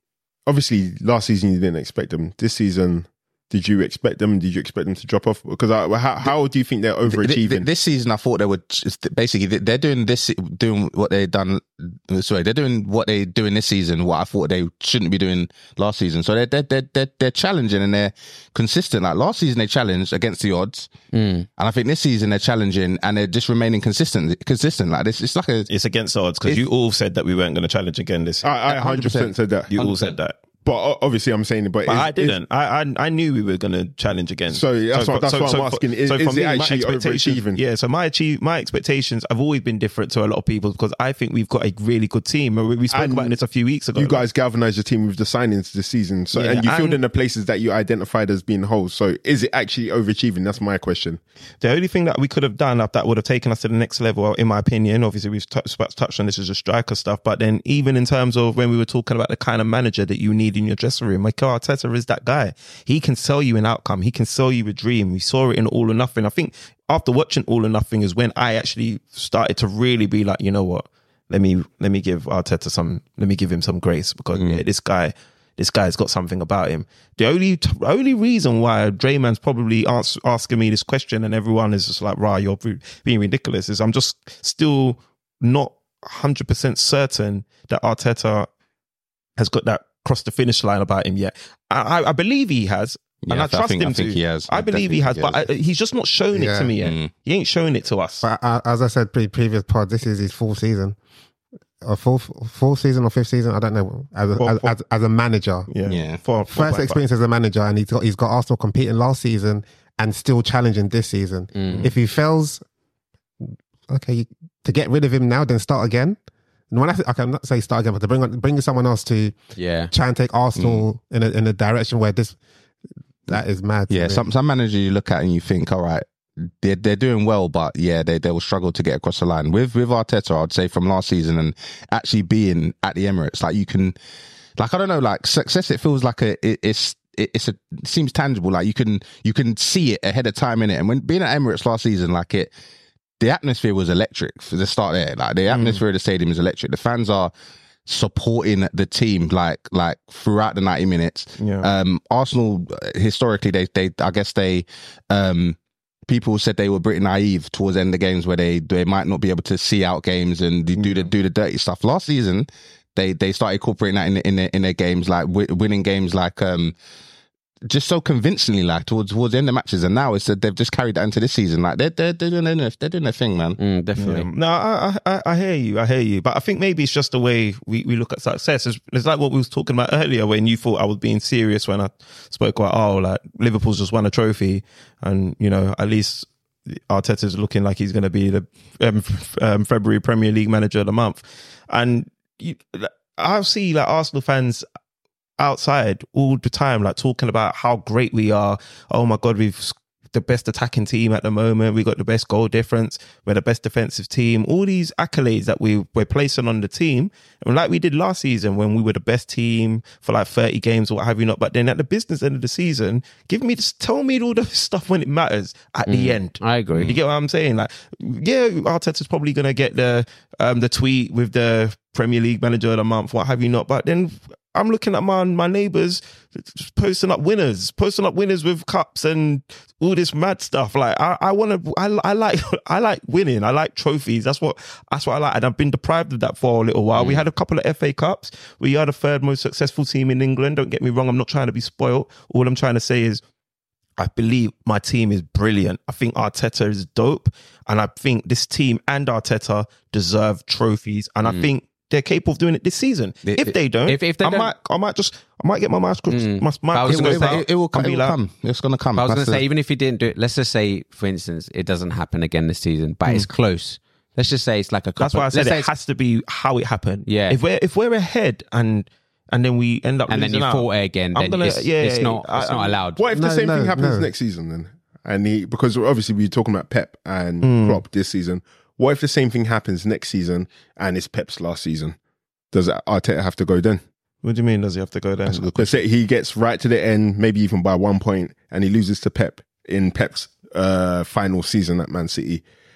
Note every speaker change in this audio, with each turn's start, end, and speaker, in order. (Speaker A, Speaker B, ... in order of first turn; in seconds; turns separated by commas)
Speaker A: 0.5-7.7, Speaker B: 7.1-20.9, Speaker C: 21.1-21.5, Speaker B: 21.6-25.7, Speaker D: 25.7-28.5, Speaker A: 28.4-29.7, Speaker B: 28.7-30.2, Speaker D: 29.7-30.4, Speaker A: 30.6-32.4, Speaker D: 31.9-44.2, Speaker A: 34.5-37.6, Speaker A: 42.9-43.4, Speaker A: 44.0-51.2, Speaker D: 46.3-47.0, Speaker D: 51.6-88.5, Speaker B: 74.3-74.6, Speaker D: 89.4-98.3, Speaker B: 93.3-95.4, Speaker E: 96.3-96.7, Speaker B: 96.8-97.1, Speaker E: 98.2-101.0, Speaker E: 101.8-105.7, Speaker D: 104.4-104.7, Speaker D: 105.7-107.0, Speaker B: 105.8-106.2, Speaker E: 106.5-112.6, Speaker C: 111.5-111.9, Speaker E: 113.5-116.2, Speaker E: 116.7-119.4, Speaker C: 119.5-119.9, Speaker E: 119.9-122.4, Speaker B: 120.6-120.9, Speaker E: 123.3-124.2, Speaker B: 123.9-134.0, Speaker B: 134.6-142.5, Speaker B: 143.2-147.3, Speaker D: 145.5-145.8, Speaker B: 147.9-166.8, Speaker D: 151.4-151.7, Speaker D: 160.8-161.1, Speaker B: 167.7-173.6, Speaker C: 173.6-174.3, Speaker D: 174.0-194.7, Speaker D: 195.4-243.2, Speaker C: 215.9-217.0, Speaker D: 244.0-258.2, Speaker B: 253.2-253.6, Speaker C: 253.9-254.5, Speaker C: 256.1-257.4, Speaker B: 256.9-259.4, Speaker C: 259.0-265.7, Speaker D: 265.0-272.8, Speaker C: 267.1-267.4, Speaker C: 270.1-273.0, Speaker A: 273.0-282.0, Speaker E: 273.1-274.1, Speaker D: 277.4-277.8, Speaker A: 282.5-283.8, Speaker D: 284.2-285.7, Speaker A: 285.5-292.4